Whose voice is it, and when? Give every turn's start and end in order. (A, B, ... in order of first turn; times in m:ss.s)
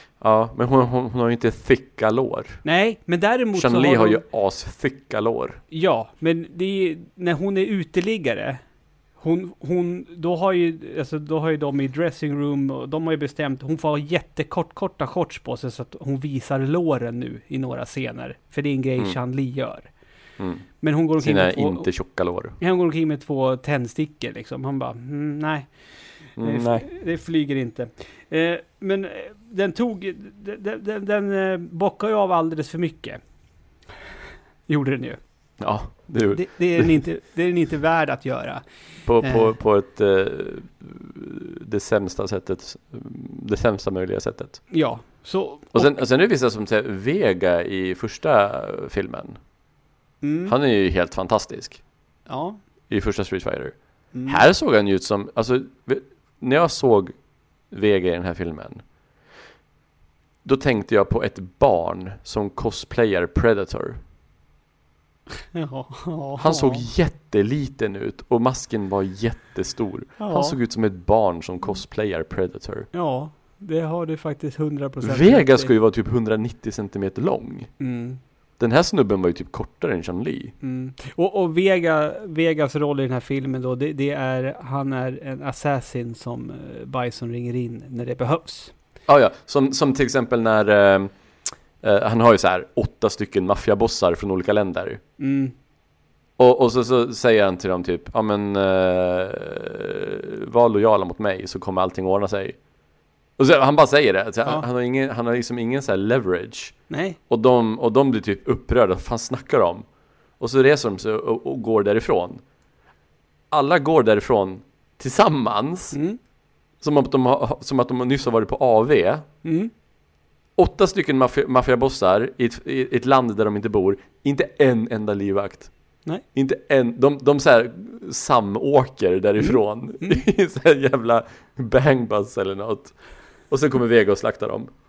0:00.2-0:02.6 A
0:02.6-0:04.2 B
0:03.5-0:05.6 A
0:05.7-0:08.6 B
0:09.2-0:19.9 B
0:20.4-0:20.6 A
0:20.8-0:21.9 B
0:21.2-0:22.6 A
0:22.6-0:25.7 B
0:26.4-0:26.9 A
0:26.4-0:33.2 B
0:34.7-0:35.2 B
0:35.6-0:36.9 A
0:36.3-0:38.6 B
0:39.1-0:44.6 A
0:39.2-0:39.5 B
0:44.7-0:46.0 B
0:45.8-0:49.4 A
0:50.2-0:50.5 B
0:50.5-0:51.8 A
0:52.3-0:52.6 B
0:52.9-0:57.2 A
0:54.1-0:54.4 B
0:57.7-0:58.8 A
1:00.4-1:04.0 A
1:05.5-1:06.9 B
1:06.4-1:12.9 A
1:10.2-1:10.6 B
1:12.9-1:15.7 B
1:15.0-1:17.7 A
1:17.8-1:18.2 B
1:18.6-1:20.6 A
1:20.6-1:28.7 B
1:29.1-1:31.1 A
1:31.8-1:35.0 A
1:35.2-1:35.5 B
1:36.4-1:42.6 A
1:43.4-1:46.8 A
1:46.9-1:47.2 B
1:47.3-1:49.8 A
1:50.4-1:52.4 A
1:53.5-1:56.0 A
1:55.9-1:56.2 B
1:56.8-1:59.3 A
1:59.4-1:59.7 B
2:00.6-2:05.7 A
2:06.4-2:12.9 A
2:09.4-2:10.2 B
2:13.5-2:14.7 A